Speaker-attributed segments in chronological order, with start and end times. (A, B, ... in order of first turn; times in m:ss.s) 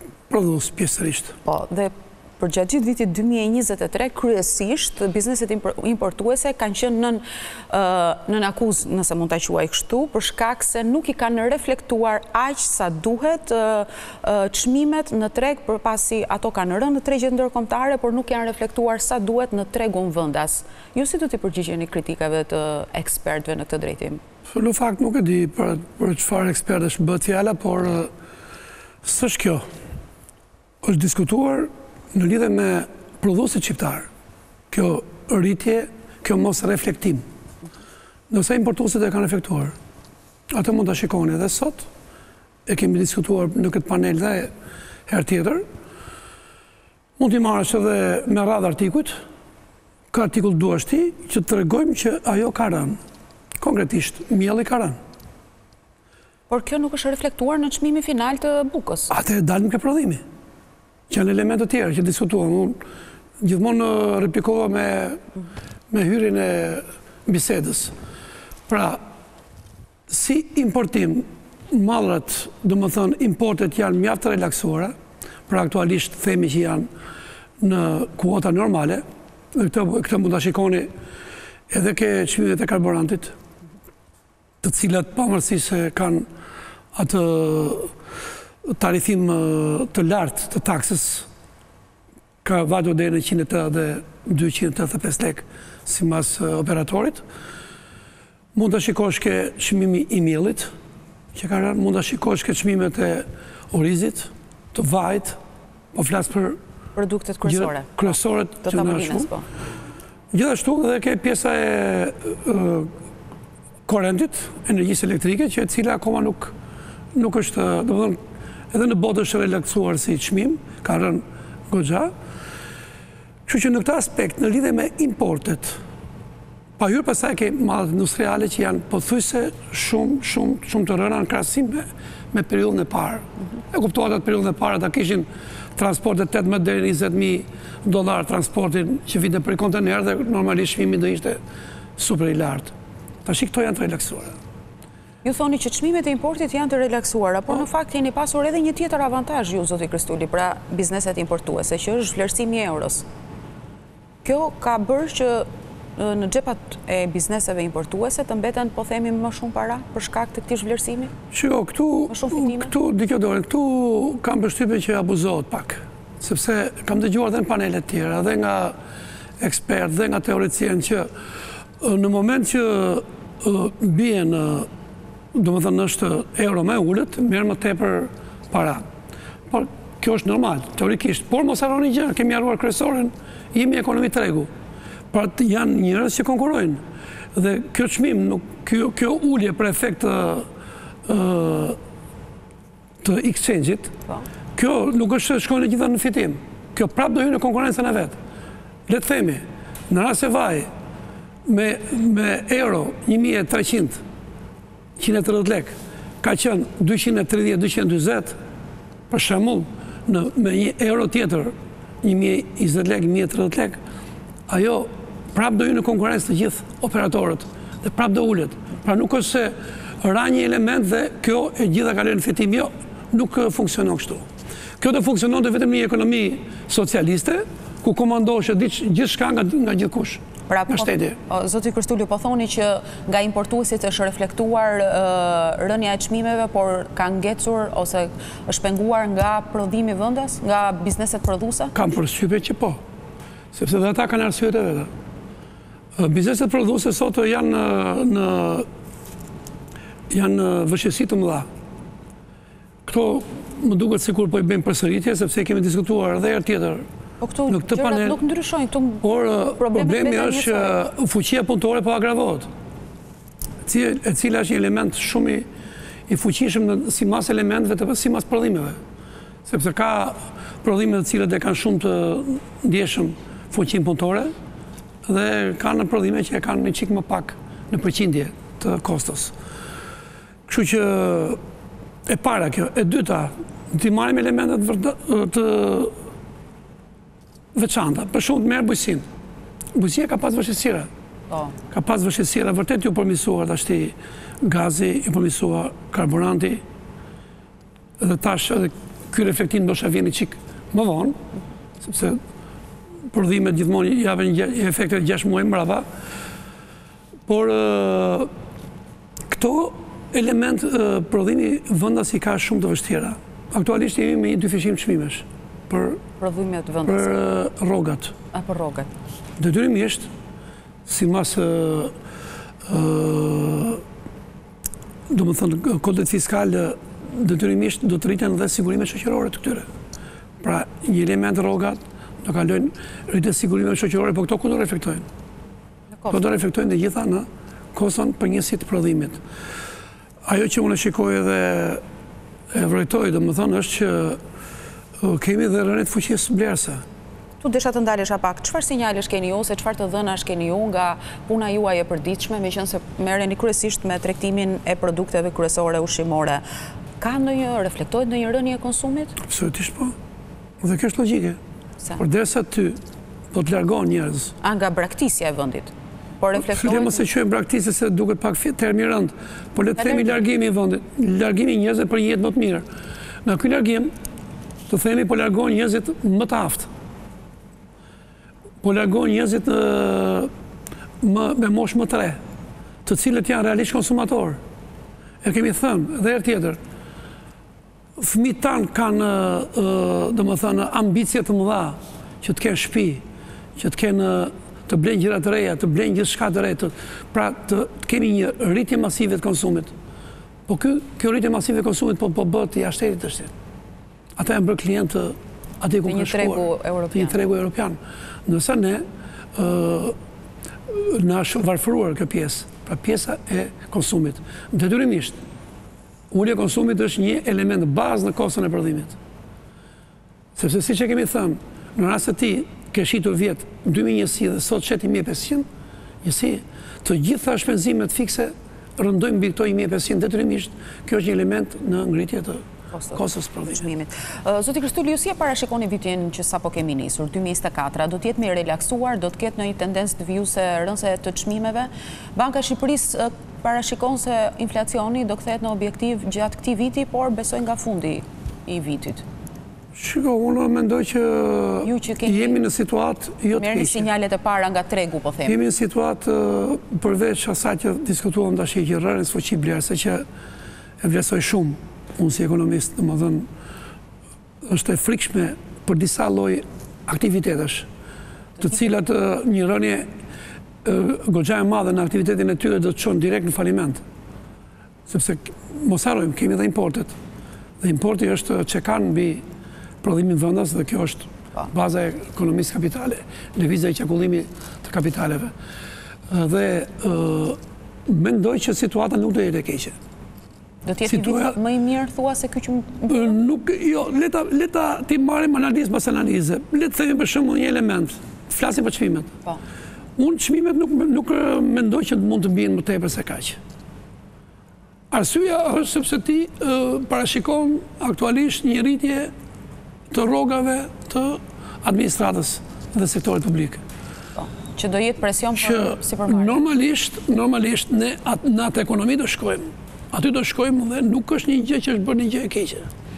0:00.3-0:01.3 A
0:01.4-0:24.2 B
0:24.5-0:28.1 A
0:29.0-0:29.6 A
0:30.8-0:34.1 A
0:34.7-0:37.2 A
0:38.3-0:39.7 A
0:40.5-0:41.9 A
0:42.7-0:44.5 A
0:45.1-0:45.6 A
0:47.2-0:49.2 A
0:50.1-0:53.0 A
0:53.6-0:55.0 A
0:56.5-0:59.1 B
0:59.1-1:00.2 A
1:01.1-1:02.8 A
1:03.4-1:05.2 A
1:05.9-1:07.9 A
1:08.7-1:09.0 A
1:10.1-1:14.9 A
1:15.5-1:16.9 A
1:17.6-1:20.9 A
1:21.7-1:23.3 A
1:24.6-1:26.3 A
1:26.9-1:27.9 A
1:28.7-1:31.3 A
1:32.4-1:37.2 A
1:38.5-1:40.7 A
1:41.3-1:45.4 A
1:45.9-1:46.6 A
1:47.0-1:49.5 B
1:47.4-1:49.3 A
1:50.3-1:52.9 A
1:53.9-1:56.5 A
1:57.1-1:58.2 A
1:58.7-2:02.1 A
2:03.5-2:05.8 A
2:06.8-2:21.4 A
2:22.0-2:22.7 A
2:23.2-2:24.3 A
2:25.2-2:33.0 B
2:34.2-2:41.1 B
2:41.3-2:48.8 A
2:42.1-2:42.7 B
2:49.4-2:51.1 A
2:51.8-2:54.7 A
2:55.3-2:58.8 A
2:59.5-3:04.5 A
3:05.1-3:06.8 A
3:07.3-3:10.5 A
3:11.0-3:11.8 A
3:13.0-3:13.9 A
3:14.5-3:18.2 A
3:18.9-3:20.7 A
3:21.4-3:24.0 A
3:25.0-3:28.4 A
3:29.1-3:33.8 A
3:34.5-3:44.2 A
3:44.8-3:51.2 A
3:50.5-4:01.7 B
4:01.7-4:02.8 A
4:03.5-4:04.9 A
4:06.0-4:08.7 A
4:10.1-4:11.5 A
4:12.8-4:16.8 A
4:17.2-4:19.0 B
4:17.5-4:18.2 A
4:19.0-4:22.5 A
4:19.6-4:20.8 B
4:23.6-4:25.4 A
4:26.1-4:28.8 A
4:29.4-4:34.3 A
4:35.0-4:39.3 A
4:40.5-4:41.4 A
4:42.0-4:45.9 A
4:47.5-4:49.0 A
4:49.7-4:50.9 A
4:51.3-4:51.6 B
4:51.7-4:56.6 A
4:58.0-5:01.2 A
5:01.8-5:02.2 A
5:03.1-5:05.8 A
5:07.3-5:08.3 A
5:09.3-5:16.0 A
5:16.2-5:17.2 B
5:16.8-5:18.1 A
5:18.3-5:18.9 B
5:19.4-5:20.1 A
5:20.8-5:21.9 A
5:22.6-5:23.8 A
5:25.1-5:29.6 A
5:30.4-5:35.0 A
5:35.9-5:36.2 B
5:36.1-5:39.2 A
5:40.2-5:41.8 A
5:42.5-5:44.2 A
5:45.0-5:46.8 A
5:47.4-5:56.4 B
5:57.0-5:59.2 B
5:59.2-5:59.9 A
6:00.6-6:01.4 A
6:02.0-6:02.8 A
6:03.3-6:04.3 A
6:04.4-6:07.1 B
6:06.4-6:12.6 A
6:09.8-6:10.1 B
6:13.2-6:13.9 A
6:14.7-6:16.7 A
6:18.6-6:20.3 A
6:21.0-6:22.2 A
6:22.8-6:24.4 A
6:25.2-6:26.6 A
6:28.0-6:33.0 A
6:33.6-6:39.7 A
6:40.5-6:43.3 A
6:44.2-6:49.9 A
6:45.8-6:47.2 B
6:50.7-6:55.2 A
6:56.1-6:58.9 A
7:00.4-7:05.4 A
7:06.0-7:12.4 A
7:12.7-7:29.0 B
7:12.9-7:13.6 A
7:29.7-7:33.8 A
7:31.6-7:32.4 B
7:33.4-7:35.4 B
7:35.2-7:40.0 A
7:40.8-7:43.3 A
7:44.4-7:47.7 A
7:48.4-7:49.9 A
7:50.6-7:53.8 A
7:54.9-7:56.9 A
7:57.6-7:59.2 A
7:59.8-8:05.3 A
8:06.1-8:09.7 A
8:10.6-8:13.2 B
8:10.9-8:11.4 A
8:12.9-8:19.1 A
8:20.0-8:23.4 A
8:24.9-8:29.1 A
8:29.9-8:33.6 A
8:34.2-8:36.4 B
8:35.4-8:42.7 A